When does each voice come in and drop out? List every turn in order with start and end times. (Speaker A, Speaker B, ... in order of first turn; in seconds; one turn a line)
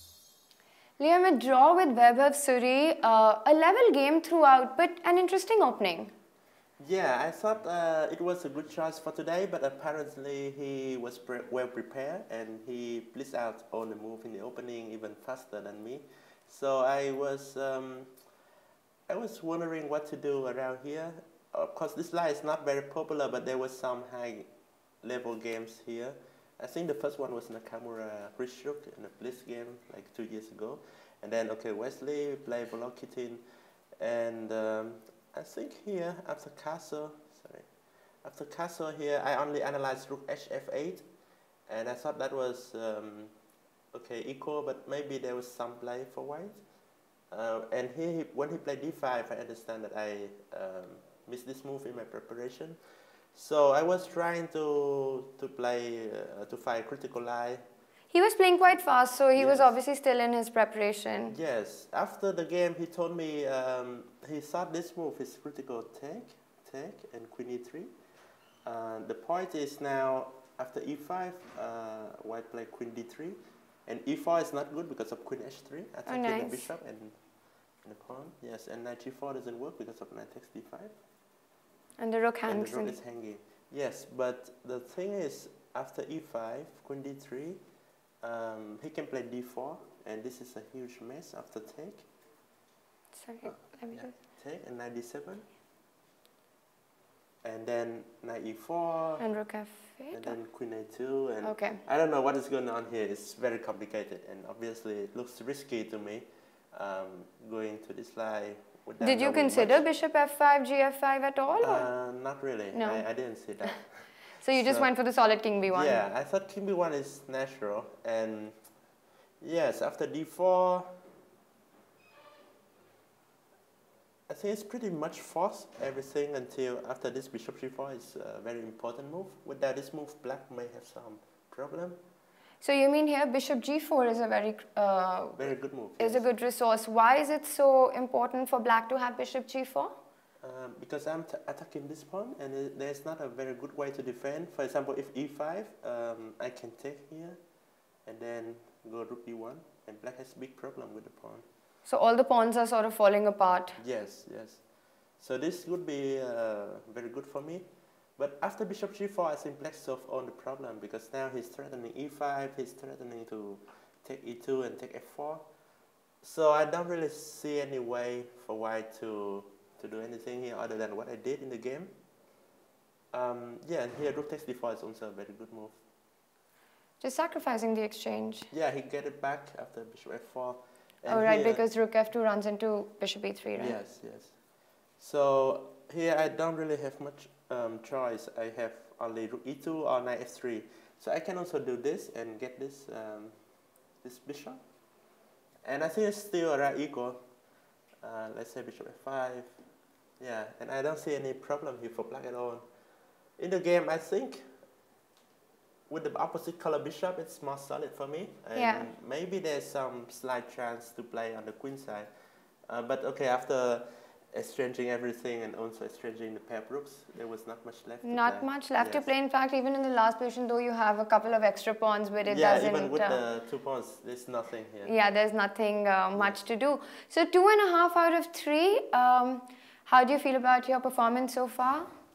Speaker A: 1.0-6.1
Speaker B: 6.8-18.1
Speaker B: 19.1-24.5
Speaker B: 25.0-33.4
Speaker B: 34.0-37.7
Speaker B: 38.2-41.0
Speaker B: 41.7-43.3
Speaker B: 43.9-46.6
Speaker B: 47.3-52.8
Speaker B: 53.3-57.6
Speaker A: 58.1-61.3
Speaker B: 59.3-59.8
Speaker B: 61.3-67.9
Speaker B: 68.6-77.2
Speaker A: 76.0-76.7
Speaker B: 77.8-80.9
Speaker A: 82.0-82.9
Speaker B: 82.4-87.6
Speaker B: 88.2-92.0
Speaker A: 93.1-94.1
Speaker B: 93.4-95.4
Speaker B: 97.4-99.3
Speaker A: 99.2-100.3
Speaker B: 100.1-109.8
Speaker A: 101.4-101.8
Speaker A: 109.0-111.9
Speaker B: 111.6-114.9
Speaker A: 112.7-113.0
Speaker A: 114.3-116.0
Speaker B: 115.6-118.6
Speaker B: 119.4-121.0
Speaker B: 124.3-132.0
Speaker A: 132.6-139.9
Speaker B: 135.3-136.3
Speaker B: 140.4-147.4
Speaker B: 148.1-151.4
Speaker A: 151.8-153.8
Speaker B: 153.8-154.6
Speaker B: 155.2-157.6
Speaker B: 158.2-165.4
Speaker B: 166.2-171.9
Speaker B: 173.1-175.8
Speaker A: 177.0-178.5
Speaker B: 178.5-181.6
Speaker A: 181.1-183.8
Speaker B: 183.6-184.4
Speaker B: 185.0-193.4
Speaker B: 194.0-194.6
Speaker B: 195.6-197.2
Speaker B: 198.0-199.7
Speaker B: 200.2-202.6
Speaker B: 203.4-204.5
Speaker B: 205.9-212.1
Speaker A: 208.5-208.9
Speaker B: 212.7-219.1
Speaker A: 218.0-223.2
Speaker B: 222.2-224.9
Speaker A: 224.8-231.9
Speaker B: 226.1-226.4